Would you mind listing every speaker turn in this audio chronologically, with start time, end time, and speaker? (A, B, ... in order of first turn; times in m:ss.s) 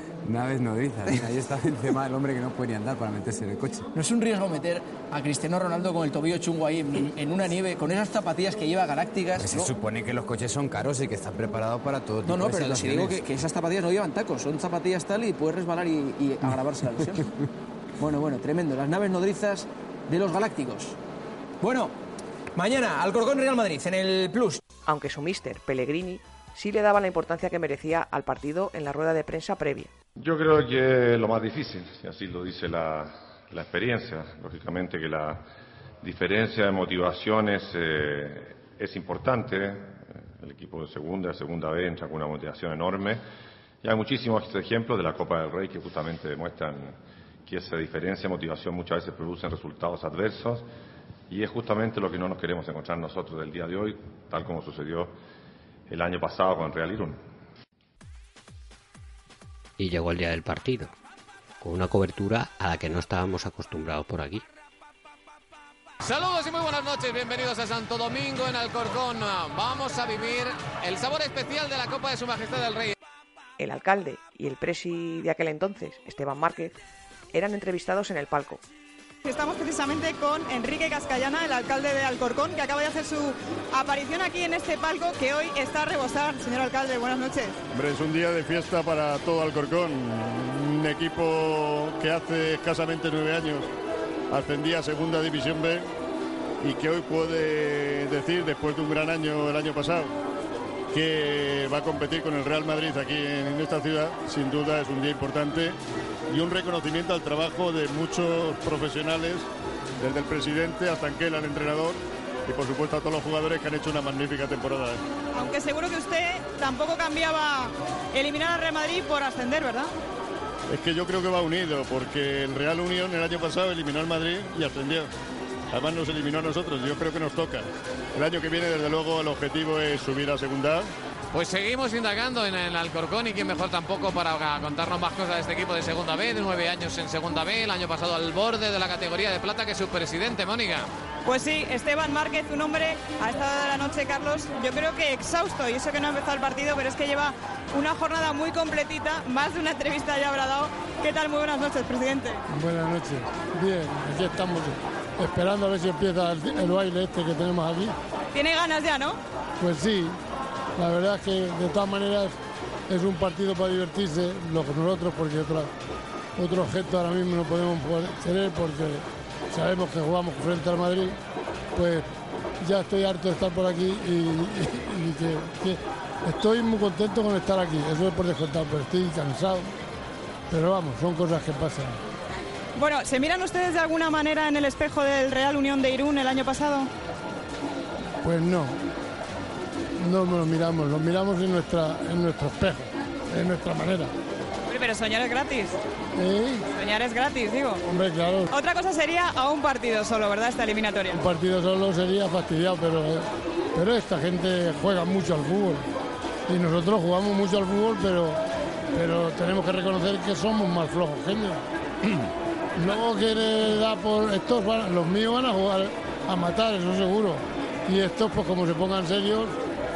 0:00.2-0:03.9 A
0:03.9-0:09.7 B
0:09.4-0:13.2 A
0:12.2-0:17.2 B
0:18.0-0:21.0 B
0:21.6-0:21.9 B
0:22.6-0:24.6 B
0:24.9-0:29.9 C
0:30.2-0:35.4 D
0:36.0-0:43.2 D
0:43.8-0:50.7 D
0:51.3-0:55.2 D
0:55.9-0:57.2 D
0:59.8-1:00.9 E
1:01.6-1:04.4 E
1:06.0-1:12.9 F
1:13.6-1:16.8 C
1:17.3-1:18.6 C
1:19.2-1:27.6 G
1:27.7-1:33.7 H
1:34.3-1:35.9 H
1:36.6-1:40.1 H
1:40.9-1:45.8 H
1:46.3-1:49.5 H
1:50.0-1:55.0 H
1:55.3-1:59.9 G
2:00.7-2:05.1 H
2:05.7-2:10.9 H
2:11.3-2:20.9 F
2:21.2-2:32.4 G
2:32.5-2:37.9 I
2:38.3-2:39.2 G
2:39.6-2:40.2 I
2:40.8-2:42.4 I
2:42.9-2:45.7 I
2:46.4-2:51.2 I
2:51.7-2:52.1 I
2:52.6-2:59.7 I
3:00.5-3:02.0 I
3:02.8-3:06.9 G
3:08.2-3:08.8 I
3:10.0-3:14.1 I
3:14.7-3:15.8 G
3:16.2-3:16.6 I
3:16.7-3:17.8 G
3:17.9-3:18.5 I
3:18.5-3:21.2 G
3:21.1-3:25.8 I
3:26.5-3:28.4 I
3:28.9-3:39.6 I